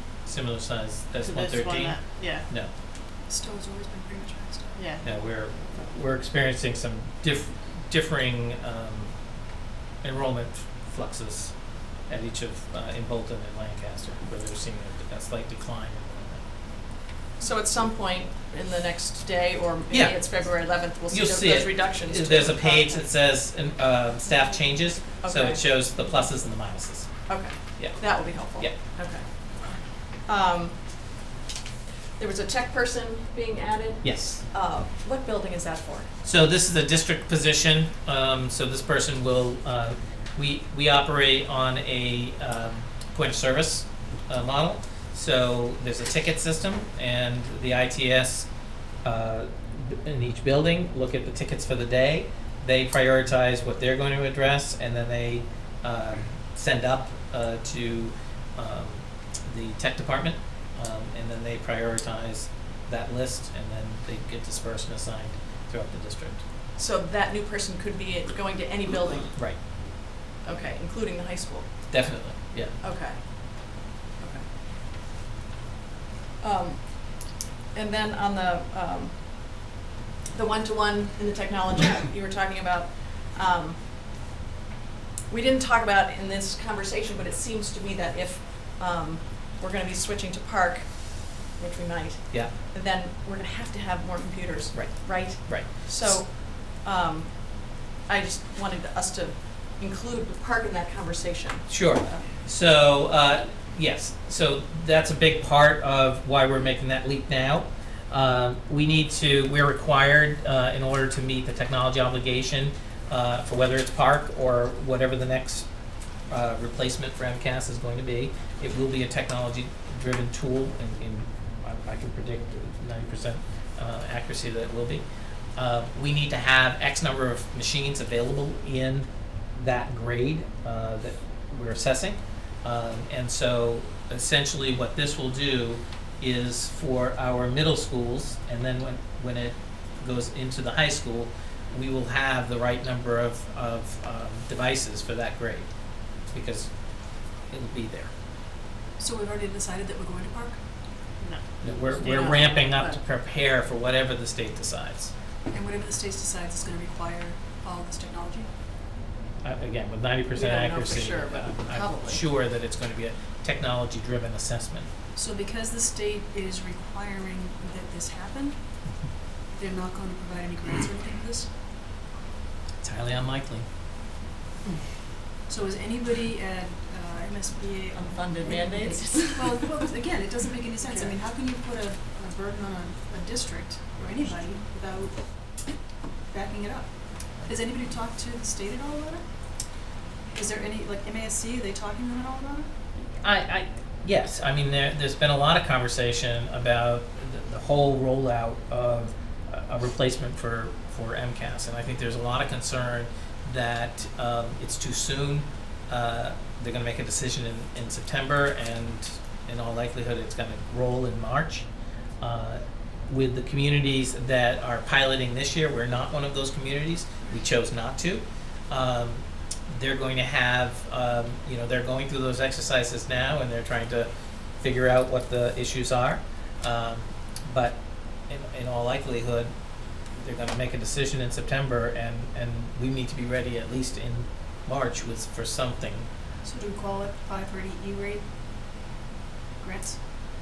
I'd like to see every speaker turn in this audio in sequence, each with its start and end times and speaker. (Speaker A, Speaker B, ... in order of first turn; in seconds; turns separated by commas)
Speaker A: 0.2-2.7, Speaker B: 1.2-2.5, Speaker C: 3.2-4.8, Speaker B: 4.7-5.1, Speaker A: 5.0-9.2, Speaker A: 10.0-16.4, Speaker D: 17.4-23.1, Speaker A: 19.9-28.7, Speaker D: 25.0-25.7, Speaker D: 27.3-30.8, Speaker D: 32.2-36.1, Speaker A: 34.0-34.4, Speaker A: 36.2-48.5, Speaker A: 49.0-66.4, Speaker D: 66.8-69.8, Speaker A: 69.3-69.6, Speaker D: 70.4-72.1, Speaker A: 71.9-72.7, Speaker D: 72.8-74.5, Speaker D: 76.4-79.7, Speaker D: 80.3-83.8, Speaker D: 85.3-102.2, Speaker A: 94.7-96.2, Speaker A: 101.7-115.7, Speaker A: 116.3-125.0, Speaker A: 125.5-146.7, Speaker A: 147.4-148.1, Speaker C: 149.0-150.6, Speaker B: 151.2-152.4, Speaker A: 151.6-155.1, Speaker D: 151.9-153.0, Speaker C: 155.5-158.5, Speaker A: 159.4-164.9, Speaker D: 160.3-162.2, Speaker C: 165.1-168.9, Speaker C: 169.5-171.5, Speaker A: 172.8-173.7, Speaker C: 175.5-178.8, Speaker D: 177.9-179.6, Speaker C: 179.3-185.8, Speaker D: 180.8-181.1, Speaker C: 186.3-189.2, Speaker C: 190.3-192.7, Speaker A: 193.0-211.7, Speaker A: 212.2-229.5, Speaker A: 230.1-236.1, Speaker C: 236.4-238.2, Speaker C: 239.6-240.0